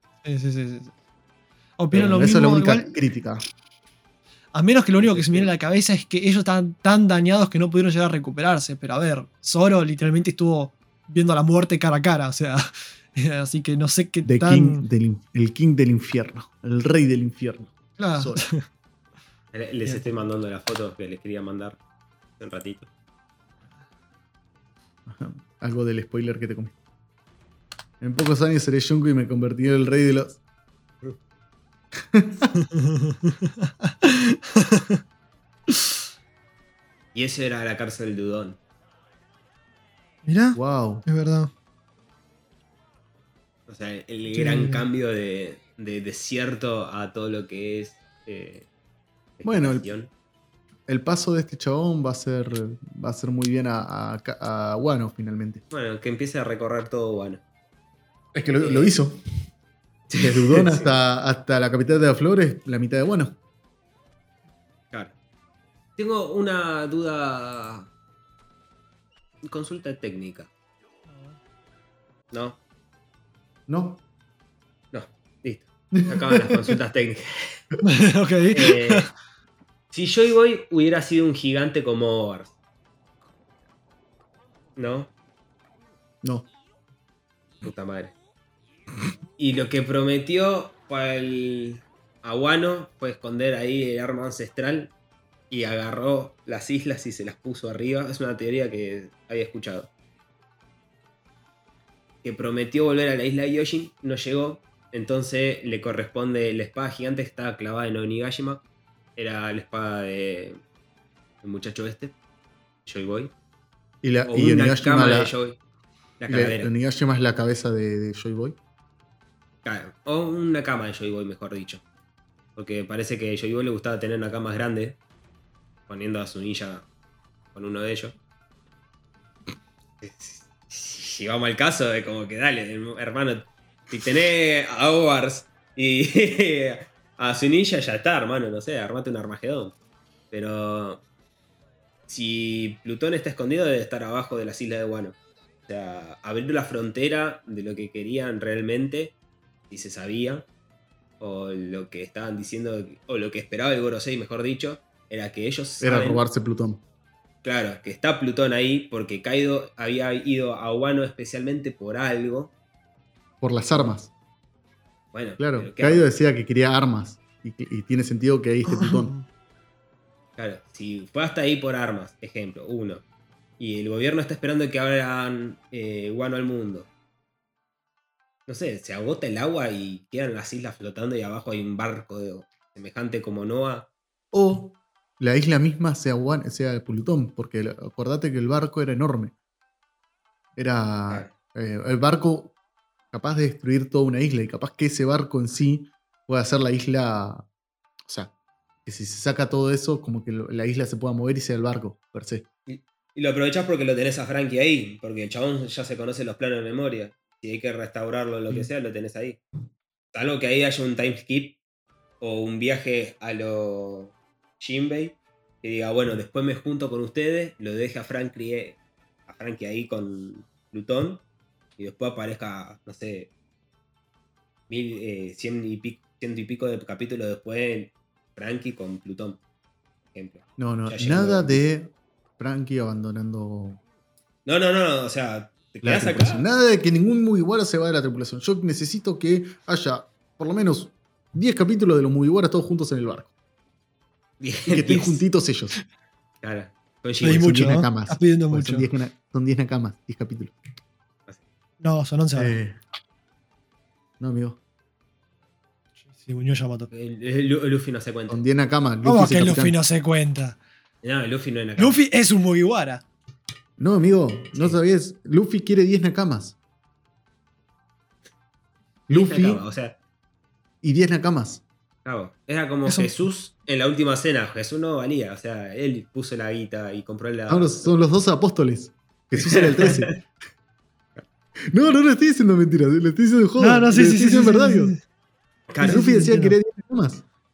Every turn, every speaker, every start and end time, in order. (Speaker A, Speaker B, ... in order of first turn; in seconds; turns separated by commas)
Speaker A: 0.2-0.9, Speaker A: 1.8-2.9, Speaker B: 1.9-3.4, Speaker A: 4.5-14.8, Speaker C: 5.0-5.5, Speaker B: 14.2-18.5, Speaker A: 18.0-18.6, Speaker C: 19.5-21.8, Speaker A: 19.8-20.2, Speaker C: 22.4-22.9, Speaker B: 25.1-26.8, Speaker B: 28.0-30.4, Speaker B: 32.0-32.5, Speaker A: 32.6-35.0, Speaker C: 37.1-38.6, Speaker A: 40.2-41.5, Speaker B: 40.5-41.0, Speaker C: 43.7-48.7, Speaker A: 44.3-44.8, Speaker C: 49.4-50.1, Speaker B: 49.4-49.9, Speaker B: 50.9-55.6, Speaker C: 55.7-57.4, Speaker B: 58.3-59.2, Speaker C: 58.6-58.9, Speaker C: 60.1-60.9, Speaker B: 60.2-63.4, Speaker C: 66.0-67.9, Speaker C: 69.4-70.5, Speaker A: 71.1-71.4, Speaker C: 72.3-72.6, Speaker B: 73.7-74.0, Speaker C: 74.9-77.6, Speaker B: 75.9-76.8, Speaker A: 77.8-79.1, Speaker C: 78.5-79.1, Speaker C: 79.9-82.5, Speaker C: 84.8-85.1, Speaker C: 87.6-88.1, Speaker C: 89.4-94.9, Speaker C: 95.5-99.9, Speaker C: 102.2-108.6, Speaker C: 109.2-110.6, Speaker C: 111.4-112.1, Speaker C: 112.8-113.3, Speaker B: 114.0-115.3, Speaker C: 114.3-115.6, Speaker C: 116.2-116.7, Speaker B: 116.3-118.6, Speaker C: 119.6-121.8, Speaker C: 122.5-125.0, Speaker C: 125.9-126.8, Speaker C: 127.5-128.2, Speaker C: 130.0-139.7, Speaker C: 140.3-141.0, Speaker C: 142.1-145.2, Speaker C: 145.7-149.1, Speaker C: 149.7-150.5, Speaker C: 151.2-156.2, Speaker B: 155.8-156.8, Speaker C: 157.4-162.5, Speaker B: 163.4-164.1, Speaker C: 165.1-166.1, Speaker B: 165.4-169.1, Speaker A: 168.7-169.2, Speaker C: 170.4-173.0, Speaker C: 173.6-176.9, Speaker C: 178.5-183.9, Speaker B: 184.3-189.3, Speaker B: 190.6-192.6, Speaker B: 193.1-197.5, Speaker B: 198.1-198.3, Speaker B: 198.8-202.4, Speaker C: 202.7-209.4, Speaker C: 210.1-211.6, Speaker C: 212.2-221.2, Speaker C: 221.8-223.3, Speaker C: 224.7-229.4, Speaker C: 230.1-231.6, Speaker B: 230.6-233.8, Speaker C: 234.4-236.4, Speaker B: 235.8-243.3, Speaker C: 244.4-245.2, Speaker B: 244.7-245.8, Speaker C: 246.4-247.5, Speaker A: 247.2-248.9, Speaker B: 247.2-250.6, Speaker A: 251.8-252.6, Speaker B: 252.3-252.8, Speaker B: 254.2-254.6, Speaker A: 256.0-256.9, Speaker C: 256.9-258.4, Speaker B: 258.3-259.8, Speaker A: 259.0-260.6, Speaker C: 261.0-262.0, Speaker A: 261.8-263.0, Speaker B: 263.8-266.6, Speaker B: 269.1-269.6, Speaker C: 269.1-270.0, Speaker B: 270.8-271.6, Speaker C: 272.0-277.9, Speaker A: 272.8-273.2, Speaker B: 277.5-280.2, Speaker C: 279.4-280.2, Speaker B: 281.7-284.9, Speaker A: 283.6-285.0, Speaker C: 285.7-286.0, Speaker A: 285.8-286.6, Speaker B: 285.8-287.2